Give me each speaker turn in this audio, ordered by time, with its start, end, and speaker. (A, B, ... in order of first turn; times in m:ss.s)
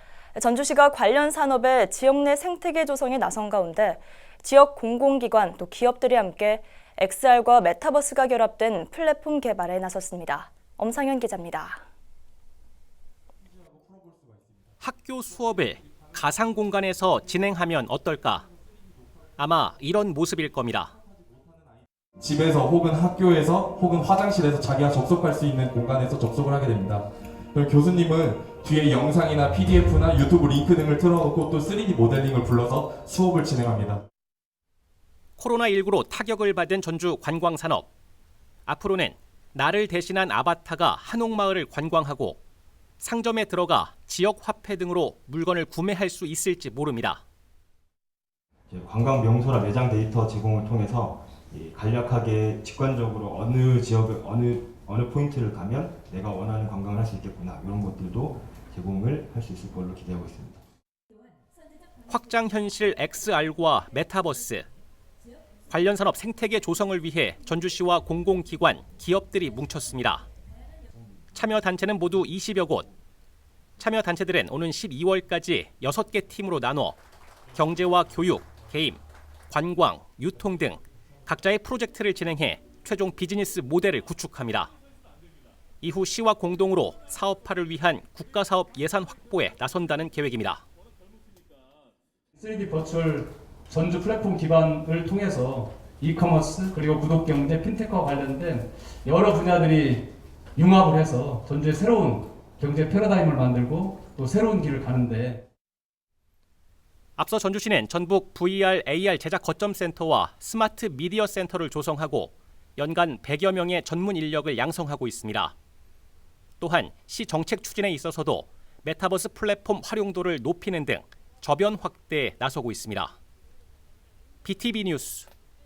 0:00.4-0:11.8 A
0:13.7-0:14.5 B
0:14.8-0:18.5 C
0:19.4-0:20.9 C
0:22.2-0:34.0 B
0:35.4-0:37.9 C
0:38.7-0:42.4 C
0:43.0-0:47.2 C
0:48.7-1:00.6 D
1:02.1-1:04.7 C
1:05.7-1:10.3 C
1:11.3-1:12.9 C
1:13.8-1:17.0 C
1:17.5-1:24.7 C
1:25.8-1:30.6 C
1:32.4-1:45.4 E
1:47.2-1:55.6 C
1:56.6-2:03.2 C
2:04.4-2:05.3 C